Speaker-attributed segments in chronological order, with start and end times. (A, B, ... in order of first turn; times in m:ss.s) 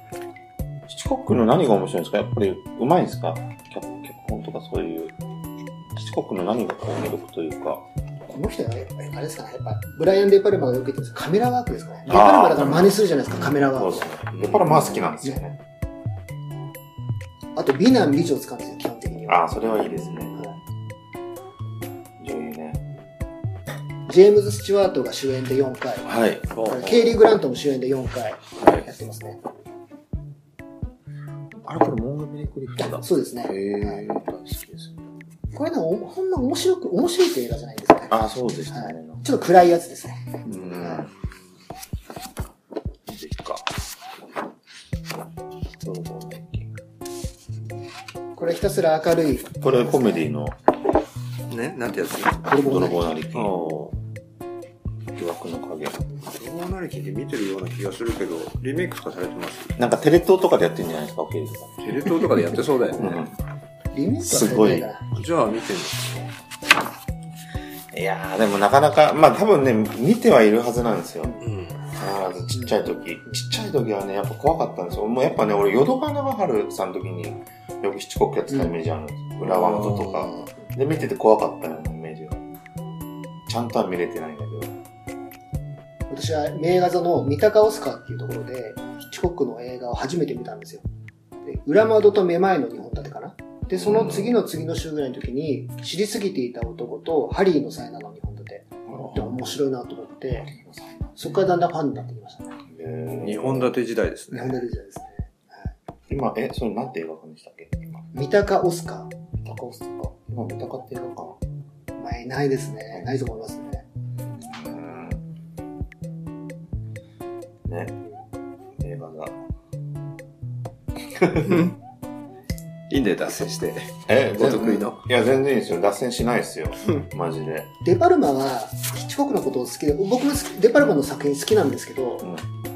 0:00.9-0:05.1 A
0:05.9-0:07.8 A
0:08.3-0:14.1 B
0:12.1-0:15.6 A
0:14.3-0:15.0 C
0:17.6-0:19.5 B
0:19.3-0:20.4 A
0:22.2-0:22.8 A
0:24.1-0:26.1 B
0:26.0-0:26.6 A
0:26.5-0:27.0 C
0:26.6-0:29.4 B
0:28.6-0:28.9 A
0:31.6-0:34.9 A
0:32.8-0:34.0 B
0:35.5-0:38.2 B
0:38.1-0:39.2 A
0:38.7-0:41.0 B
0:40.4-0:41.1 A
0:43.1-0:43.7 A
0:45.8-0:46.7 A
0:48.4-0:50.3 B
0:49.6-0:50.6 A
0:51.5-0:52.4 C
0:52.4-0:53.1 B
0:52.6-0:53.8 A
0:53.3-0:54.0 C
0:55.1-0:56.0 A
0:56.3-0:59.8 C
0:59.8-1:03.4 A
1:01.8-1:03.2 C
1:03.9-1:05.0 B
1:04.2-1:04.9 A
1:05.1-1:06.3 C
1:07.9-1:11.4 A
1:11.4-1:11.8 C
1:11.9-1:22.4 A
1:19.4-1:20.5 C
1:23.5-1:24.7 A
1:26.1-1:30.8 B
1:31.4-1:40.5 B
1:33.7-1:34.4 A
1:38.9-1:39.5 A
1:40.4-1:41.4 A
1:41.2-1:42.5 B
1:42.7-1:43.7 A
1:43.2-1:44.6 C
1:44.3-1:45.3 B
1:46.1-1:48.0 A
1:48.1-1:49.1 B
1:49.4-1:51.4 A
1:52.0-1:53.8 B
1:54.3-1:55.2 A
1:57.6-1:58.0 A
1:58.8-1:59.4 A
2:01.3-2:01.8 C
2:01.3-2:01.6 A
2:02.9-2:05.0 C
2:04.1-2:07.7 A
2:07.8-2:12.3 B